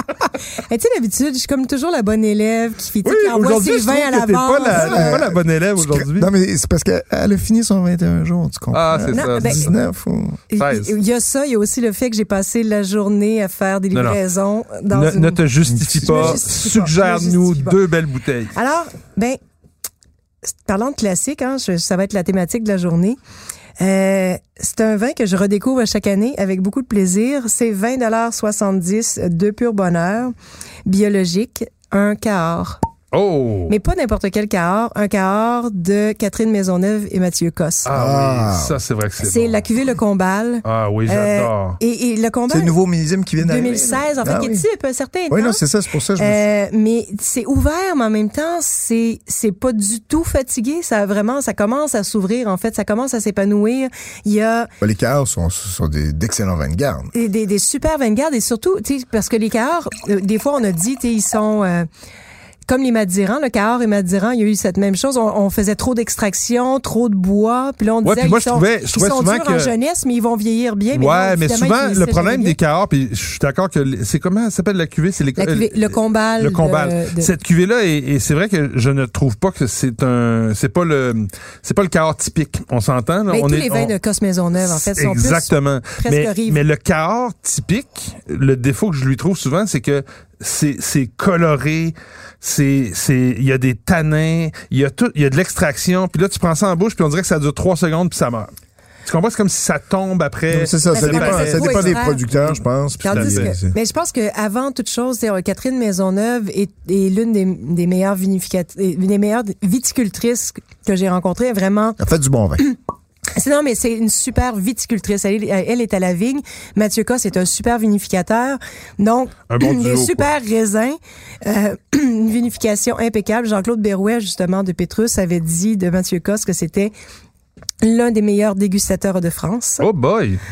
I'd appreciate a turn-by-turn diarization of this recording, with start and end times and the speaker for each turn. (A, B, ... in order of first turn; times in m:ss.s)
0:00.7-0:05.2 A
0:03.0-0:06.3 B
0:04.7-0:10.4 C
0:08.7-0:09.7 B
0:09.1-0:09.7 A
0:10.5-0:15.4 A
0:10.6-0:10.9 B
0:14.9-0:18.5 B
0:15.7-0:16.4 C
0:16.0-0:17.8 A
0:18.5-0:19.4 A
0:20.4-0:23.2 A
0:23.8-0:30.3 A
0:30.8-0:32.8 A
0:33.1-0:33.7 B
0:33.7-0:37.9 A
0:37.8-0:39.6 B
0:37.9-0:38.8 C
0:39.2-0:42.7 A
0:40.6-0:41.8 B
0:42.5-0:44.6 C
0:43.4-0:45.6 A
0:45.3-0:46.4 C
0:46.2-0:54.7 A
0:54.8-0:57.1 C
0:57.1-1:01.9 A
1:02.7-1:12.6 A
1:08.0-1:09.7 B
1:10.9-1:23.9 B
1:15.4-1:17.3 A
1:23.3-1:26.6 A
1:24.6-1:38.5 B
1:39.0-1:42.5 B
1:40.5-1:43.7 C
1:40.9-1:42.2 A
1:43.0-1:52.0 A
1:43.1-1:43.5 B
1:52.0-1:52.7 C
1:53.3-2:06.9 A
1:59.5-2:00.3 B
2:07.8-2:09.9 A
2:09.8-2:10.4 B